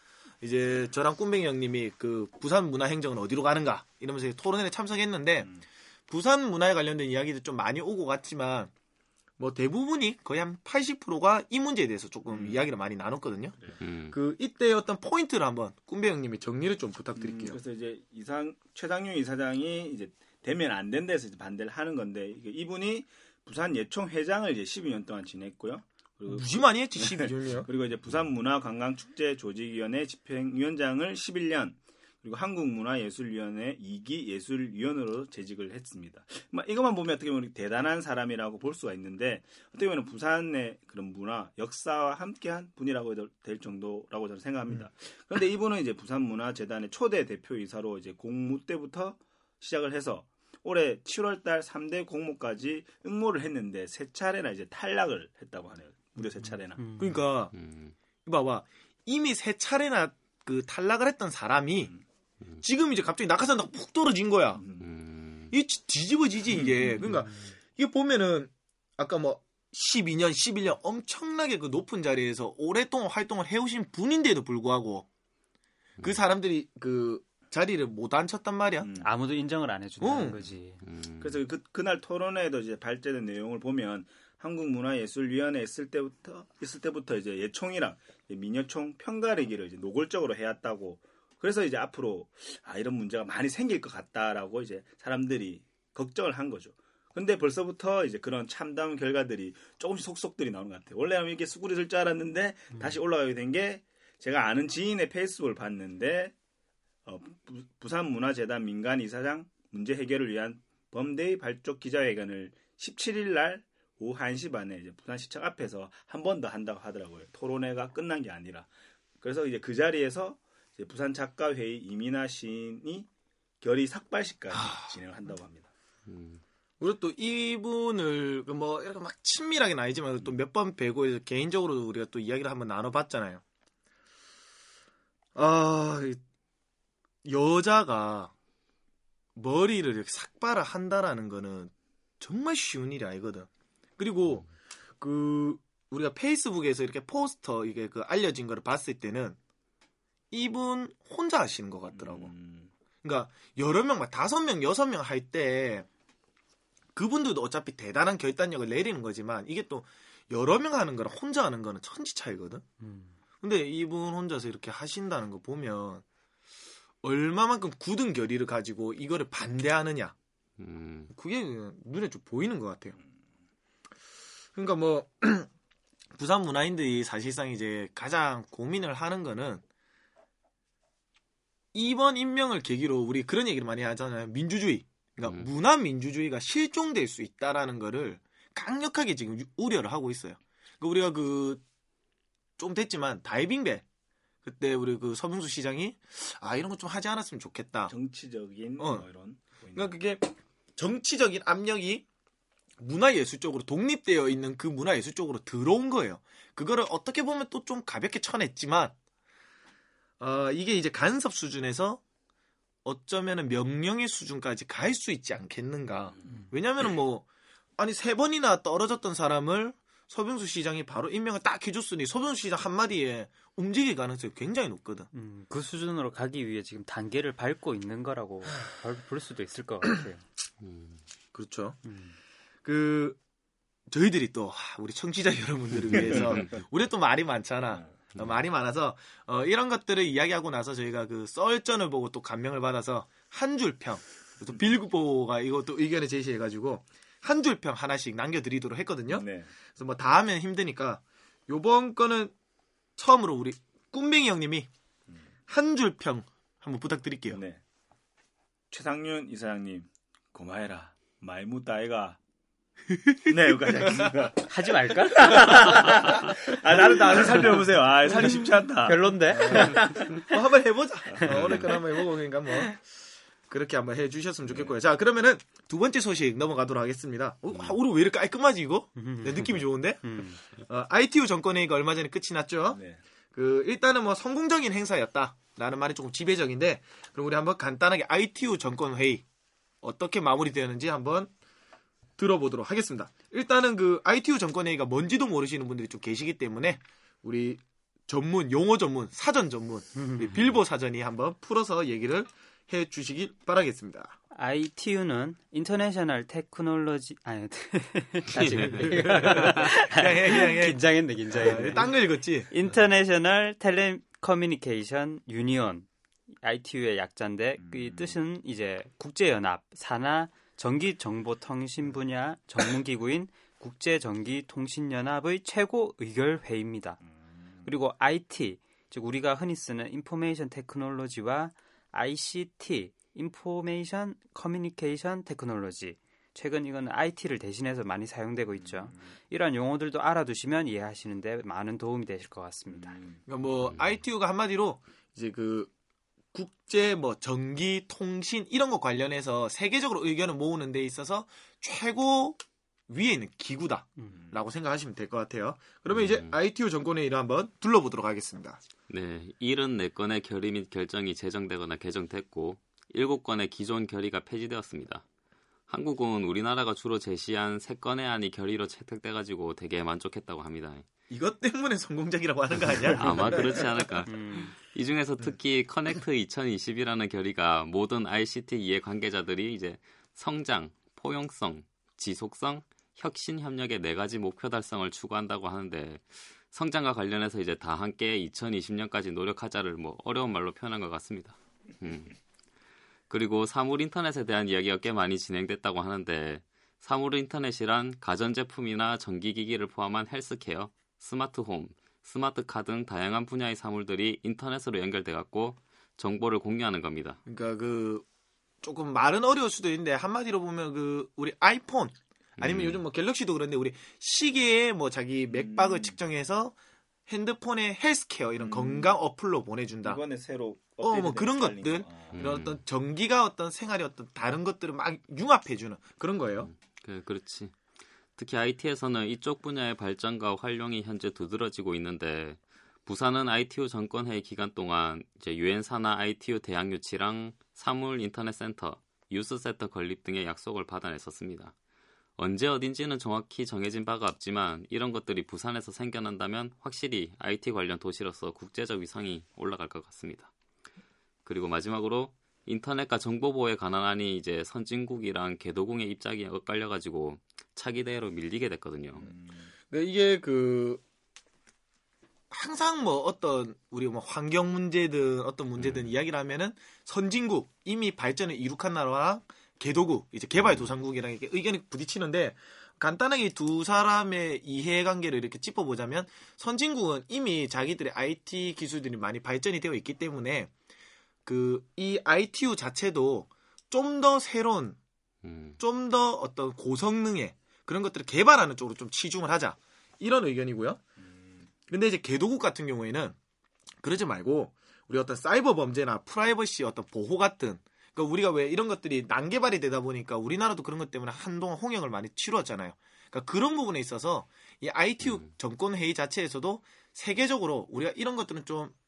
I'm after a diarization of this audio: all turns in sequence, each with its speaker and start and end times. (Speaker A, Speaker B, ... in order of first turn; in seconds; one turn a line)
Speaker A: 0.4-5.5
Speaker A: 6.1-8.7
Speaker A: 9.4-13.6
Speaker B: 12.3-12.6
Speaker C: 13.8-14.1
Speaker A: 14.1-17.6
Speaker B: 17.1-56.8
Speaker A: 26.3-27.7
Speaker D: 56.8-57.2
Speaker A: 57.0-57.5
Speaker C: 57.5-57.9
Speaker A: 58.2-61.9
Speaker A: 62.6-64.6
Speaker B: 64.6-64.8
Speaker C: 64.8-65.5
Speaker A: 65.5-75.1
Speaker B: 66.5-67.0
Speaker A: 76.0-78.9
Speaker B: 78.8-79.1
Speaker D: 79.0-80.8
Speaker A: 80.0-80.4
Speaker C: 80.8-81.4
Speaker B: 81.2-106.3
Speaker B: 107.0-118.7
Speaker B: 119.2-123.1
Speaker B: 123.6-125.7
Speaker A: 124.5-124.9
Speaker C: 126.1-126.4
Speaker A: 126.8-133.4
Speaker A: 135.3-136.2
Speaker A: 137.2-138.3
Speaker A: 139.3-144.5
Speaker A: 145.0-149.4
Speaker A: 150.3-152.3
Speaker B: 151.9-152.7
Speaker A: 153.0-155.8
Speaker A: 156.9-162.6
Speaker D: 162.8-163.1
Speaker A: 163.4-166.0
Speaker A: 167.0-170.1
Speaker C: 170.6-171.1
Speaker A: 171.1-172.9
Speaker A: 174.5-175.5
Speaker A: 176.1-179.6
Speaker A: 181.7-191.6
Speaker A: 192.6-193.8
Speaker A: 194.4-197.9
Speaker B: 197.9-199.9
Speaker A: 198.8-199.1
Speaker A: 199.7-202.0
Speaker A: 202.8-208.9
Speaker A: 210.2-212.0
Speaker A: 212.8-217.2
Speaker A: 217.8-225.1
Speaker D: 225.1-230.2
Speaker C: 230.6-231.0
Speaker A: 231.3-231.8
Speaker D: 231.8-232.1
Speaker A: 232.6-233.2
Speaker A: 233.9-252.3
Speaker B: 235.9-236.2
Speaker B: 249.1-249.5
Speaker A: 252.9-254.7
Speaker A: 255.5-257.4
Speaker B: 257.3-257.6
Speaker B: 258.7-262.2
Speaker A: 262.9-264.1
Speaker B: 263.3-270.1
Speaker D: 264.5-265.8
Speaker A: 268.1-268.5
Speaker D: 268.8-270.1
Speaker A: 269.3-272.8
Speaker C: 271.3-271.6
Speaker A: 273.5-282.8
Speaker B: 274.5-274.7
Speaker D: 279.0-280.4
Speaker B: 282.7-283.0
Speaker A: 283.3-289.2
Speaker A: 289.8-291.3
Speaker A: 292.2-304.1
Speaker D: 304.3-311.9
Speaker C: 308.6-309.4
Speaker A: 309.1-312.5
Speaker D: 312.5-315.9
Speaker D: 316.4-327.0
Speaker B: 317.6-318.1
Speaker D: 327.6-343.0
Speaker B: 338.6-339.0
Speaker B: 342.7-343.2
Speaker A: 343.3-345.7
Speaker C: 343.6-343.9
Speaker A: 346.3-358.6
Speaker C: 355.9-356.3
Speaker C: 358.9-365.0
Speaker C: 365.7-370.8
Speaker A: 371.1-374.0
Speaker C: 372.9-392.1
Speaker D: 374.1-374.5
Speaker C: 393.1-407.2
Speaker A: 407.2-408.1
Speaker A: 408.6-416.5
Speaker C: 412.4-412.8
Speaker B: 415.3-415.9
Speaker A: 417.1-420.0
Speaker B: 418.4-419.0
Speaker B: 419.8-422.1
Speaker A: 420.8-426.5
Speaker C: 422.1-422.6
Speaker C: 426.4-427.5
Speaker C: 428.1-441.5
Speaker C: 442.2-450.3
Speaker C: 451.2-459.1
Speaker B: 459.0-459.5
Speaker A: 459.7-460.8
Speaker A: 462.3-480.5
Speaker C: 465.6-465.9
Speaker A: 481.2-484.8
Speaker C: 485.2-485.6
Speaker A: 485.6-490.8
Speaker B: 491.0-491.5
Speaker A: 491.7-493.1
Speaker A: 493.8-508.7
Speaker C: 505.0-505.3